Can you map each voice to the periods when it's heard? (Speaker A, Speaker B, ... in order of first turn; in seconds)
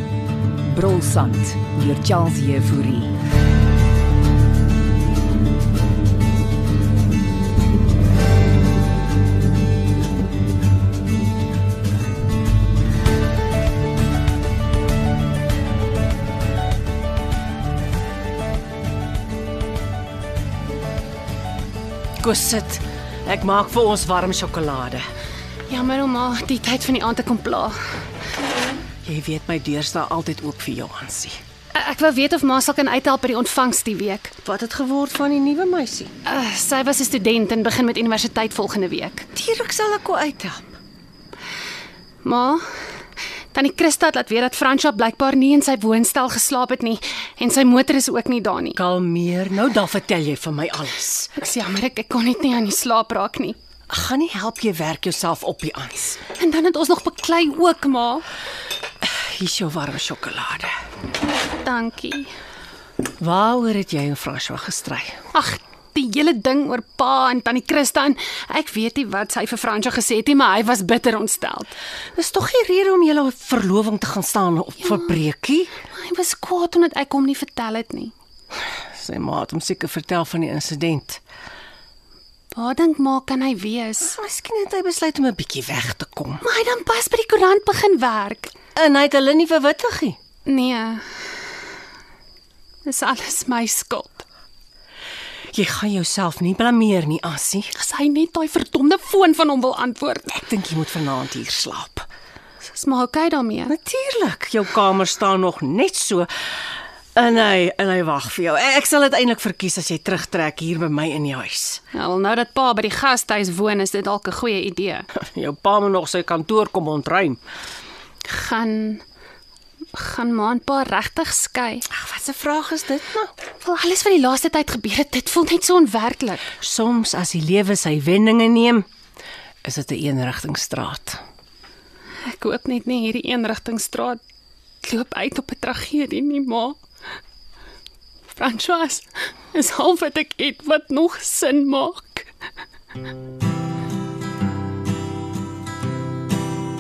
Speaker A: 0.7-3.1
Speaker B: 22.2-25.1, 29.1-31.4, 34.4-36.1, 39.4-40.7, 48.8-51.3, 53.9-56.3, 59.0-60.8, 63.2-65.2, 72.2-75.7, 79.0-81.2, 84.0-86.4, 88.7-90.2, 95.5-97.7, 100.3-102.1, 103.7-106.3, 107.2-111.8, 115.2-117.4, 121.9-123.3, 126.5-128.9, 129.6-131.2
Speaker C: 25.7-27.8, 31.8-34.4, 36.2-39.3, 42.2-42.6, 43.5-48.8, 51.4-53.6, 56.4-58.2, 61.6-62.3, 65.3-71.7, 75.9-78.1, 82.5-84.2, 86.4-88.7, 90.5-91.0, 92.9-94.2, 97.8-100.3, 102.6-103.7, 111.9-115.1, 118.3-119.0, 120.0-121.8, 123.6-126.5, 132.3-134.2, 134.8-136.8, 138.4-142.3